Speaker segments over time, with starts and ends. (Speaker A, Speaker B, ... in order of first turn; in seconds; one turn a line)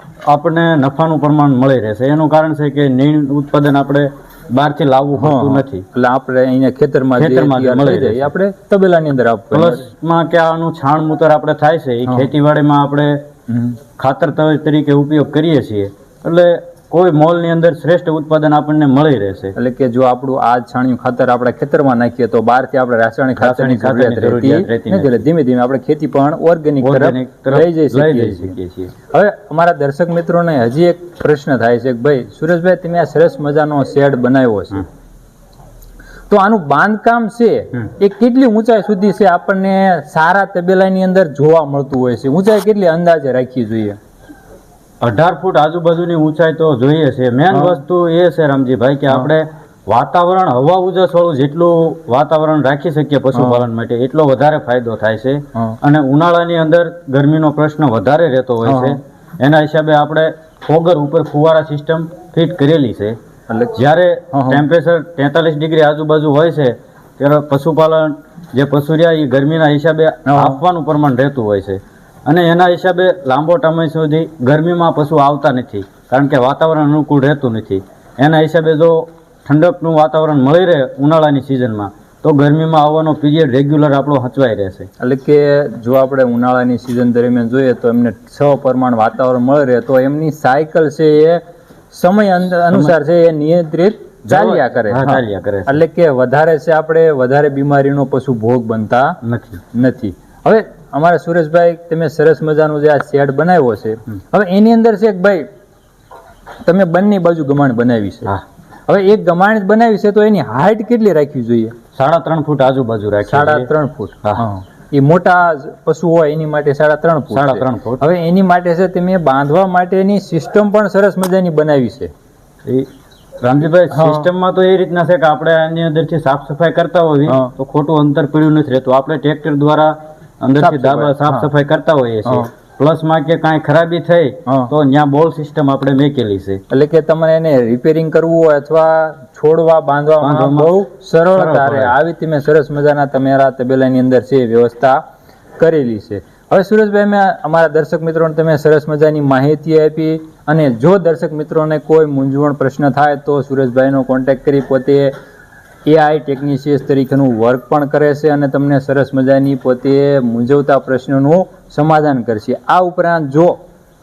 Speaker A: 0.2-5.8
Speaker B: 5.2-9.8
Speaker A: 7.2-8.3
Speaker A: 9.5-13.3
Speaker B: 13.5-13.8
Speaker A: 14.0-19.5
Speaker B: 19.6-28.6
Speaker A: 23.4-25.2
Speaker A: 26.8-28.9
Speaker B: 29.1-34.9
Speaker B: 36.3-44.0
Speaker A: 45.0-63.2
Speaker B: 47.5-47.8
Speaker B: 53.3-53.6
Speaker B: 58.6-59.0
Speaker B: 63.5-63.7
Speaker A: 63.7-84.9
Speaker B: 64.3-64.6
Speaker B: 70.3-70.6
Speaker B: 85.0-99.2
Speaker A: 94.2-95.8
Speaker A: 99.2-99.6
Speaker B: 99.7-105.5
Speaker B: 106.6-108.3
Speaker B: 108.9-111.8
Speaker A: 111.9-113.7
Speaker B: 113.2-122.1
Speaker A: 117.3-118.0
Speaker A: 123.4-136.6
Speaker B: 123.9-124.3
Speaker B: 130.6-131.5
Speaker B: 134.5-134.7
Speaker B: 136.7-145.0
Speaker A: 140.2-140.8
Speaker A: 141.3-141.9
Speaker B: 145.6-155.1
Speaker B: 155.8-163.6